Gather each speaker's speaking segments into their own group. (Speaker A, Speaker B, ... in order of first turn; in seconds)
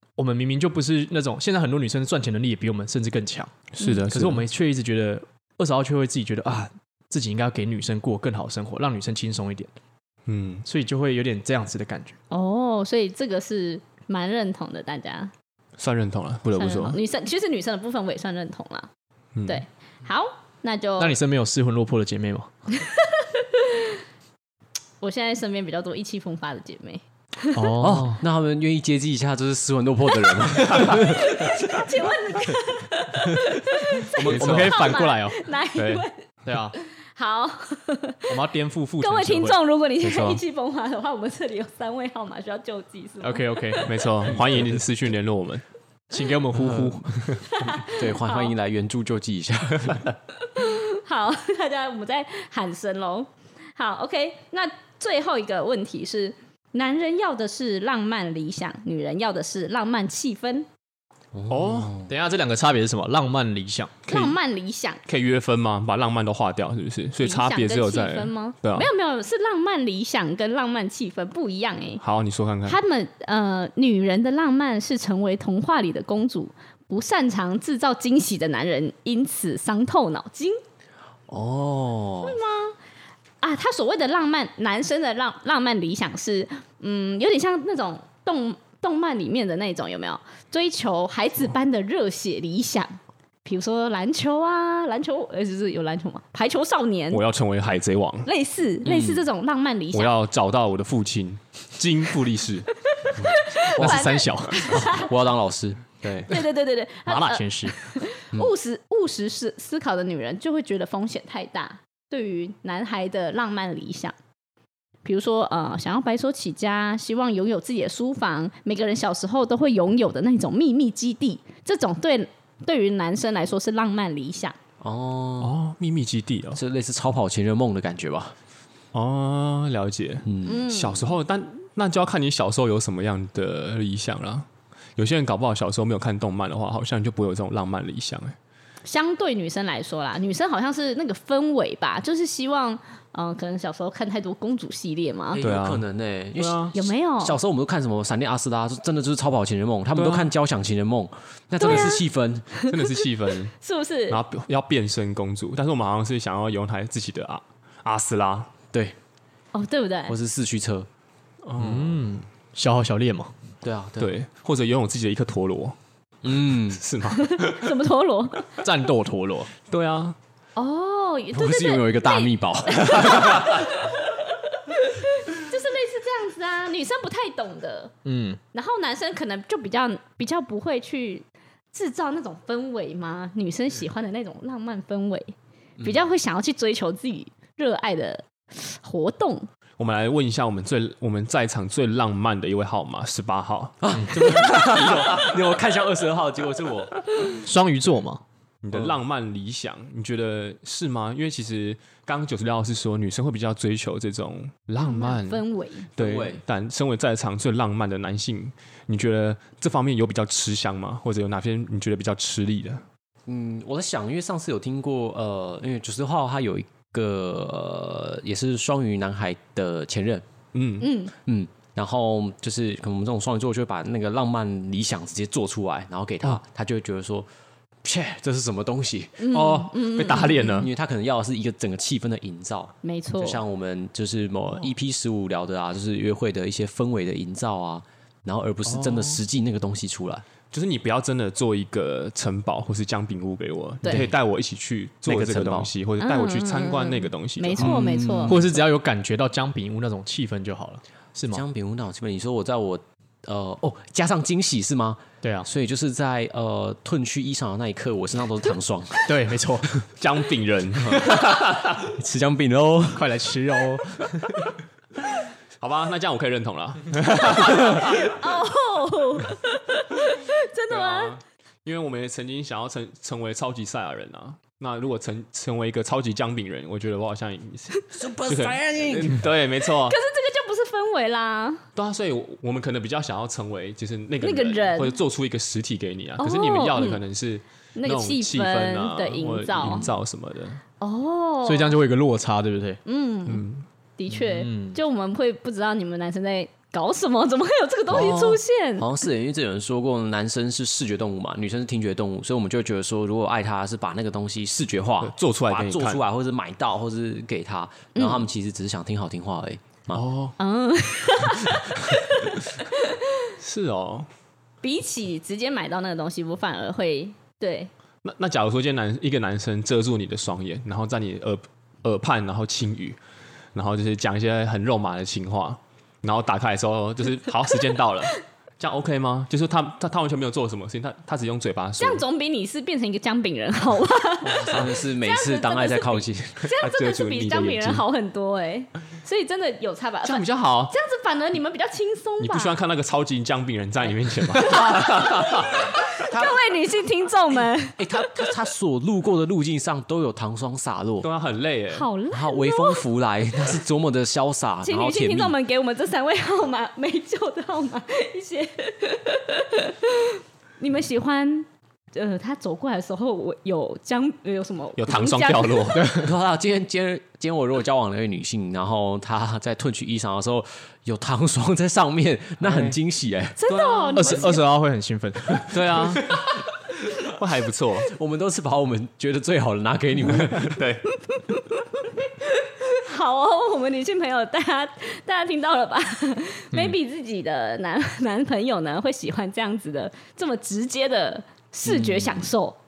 Speaker A: 0.2-9.7, 10.6-12.2, 21.0-22.5, 27.5-28.2, 34.2-35.4, 36.4-36.7, 38.3-39.6, 43.2-44.6, 46.1-47.2, 62.0-63.9, 103.8-104.8, 107.1-107.9, 161.6-163.3, 168.6-169.5, 178.0-178.4, 193.9-194.3, 197.4-198.2, 247.6-251.4, 259.0-259.9, 262.9-264.5, 291.4-292.8, 294.1-294.8, 365.7-366.1, 373.9-375.8
Speaker B: 3.8-4.4, 10.2-10.6, 15.8-17.0, 19.3-19.6, 34.2-35.0, 35.8-36.0, 40.0-40.4, 43.8-45.6, 61.5-62.0, 64.1-64.4, 65.0-68.9, 72.0-72.8, 97.1-98.3, 99.9-102.7, 106.0-106.3, 125.4-126.6, 128.9-138.3, 145.4-145.8, 146.3-146.7, 149.9-150.3, 151.6-151.9, 152.7-153.5, 154.1-158.5, 161.4-162.1, 164.0-165.8, 166.7-167.7, 169.7-170.2, 189.8-195.3, 198.6-212.8, 220.5-220.9, 229.3-230.7, 238.7-239.2, 240.5-247.8, 259.9-261.9, 265.6-268.2, 270.7-280.0, 281.8-290.6, 293.3-293.6, 305.0-306.0, 309.9-310.3, 313.4-314.1, 318.0-323.0, 323.5-332.0, 334.2-334.7, 336.4-337.8, 340.0-340.7, 342.2-345.6, 351.0-351.9, 364.8-365.9, 372.4-372.8, 373.4-374.4, 375.5-376.4, 377.0-377.9, 380.4-380.9
Speaker C: 12.3-15.3, 16.6-18.9, 19.4-21.1, 22.7-23.9, 25.0-27.7, 30.8-36.2, 36.8-38.3, 39.0-43.9, 47.5-48.5, 50.5-60.7, 64.1-65.0, 67.2-72.0, 72.7-80.6, 82.2-82.8, 83.4-97.2, 98.2-100.1, 103.0-105.1, 106.3-114.1, 115.0-124.6, 130.4-131.0, 138.8-145.4, 146.7-147.4, 151.6-152.0, 153.6-154.2, 159.5-160.2, 167.1-168.5, 170.6-177.9, 178.5-189.5, 204.8-205.9, 220.8-221.1, 229.2-230.7, 232.8-233.4, 246.0-248.4, 268.0-271.1, 279.6-281.6, 284.2-285.0, 286.2-287.0, 287.8-289.9, 290.8-291.8, 292.8-293.4, 294.0-298.9, 307.9-308.3, 310.4-313.3, 314.6-317.7, 331.8-342.6, 344.3-348.1, 351.7-352.8, 354.6-365.8, 373.4-374.4, 381.1-381.4, 382.2-392.6
Speaker D: 27.8-31.6, 46.6-47.1, 47.8-50.1, 61.3-62.1, 81.3-82.4, 98.8-99.2, 103.8-105.9, 124.8-125.6, 126.5-128.3, 130.2-130.6, 145.3-152.5, 160.1-160.9, 163.6-164.1, 166.2-166.8, 171.3-173.6, 193.8-197.1, 198.7-199.0, 206.0-206.4, 213.2-220.2, 221.2-227.3, 227.8-229.3, 230.0-240.2, 243.8-244.1, 245.0-245.7, 247.6-248.5, 251.3-259.2, 260.8-263.1, 277.9-279.2, 297.9-310.0, 334.5-336.5, 347.8-351.1, 352.1-355.4, 365.9-373.4, 377.9-380.6, 391.6-392.3